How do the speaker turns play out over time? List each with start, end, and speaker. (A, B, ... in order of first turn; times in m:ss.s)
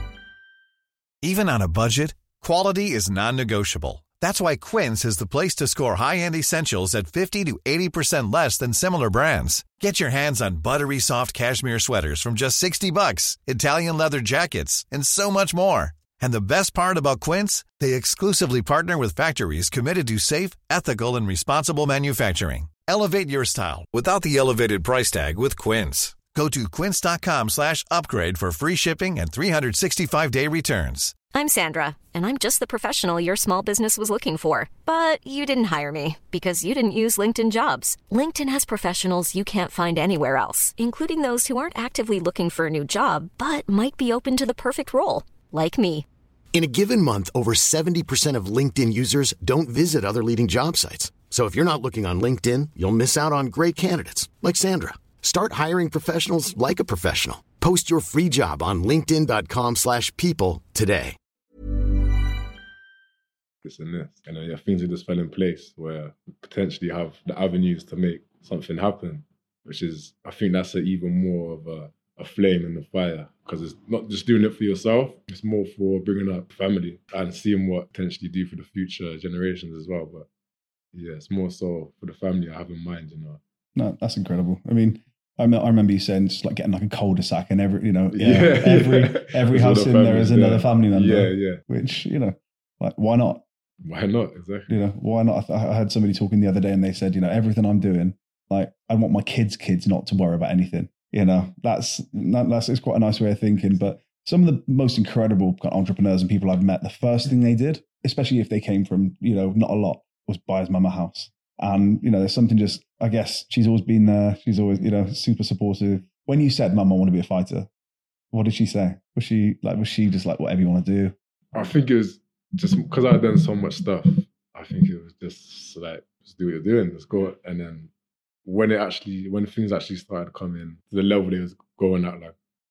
0:01.2-0:31.2 A
0:31.3-0:46.1 B
0:46.5-1:01.2 C
1:03.6-1:20.3 D
1:20.9-1:23.4 D
1:23.8-1:33.4 E
1:28.1-1:31.6 D
1:33.8-1:34.8 D
1:34.7-1:57.7 E
1:58.3-2:01.1 E
2:01.5-2:07.9 D
2:08.4-2:12.3 D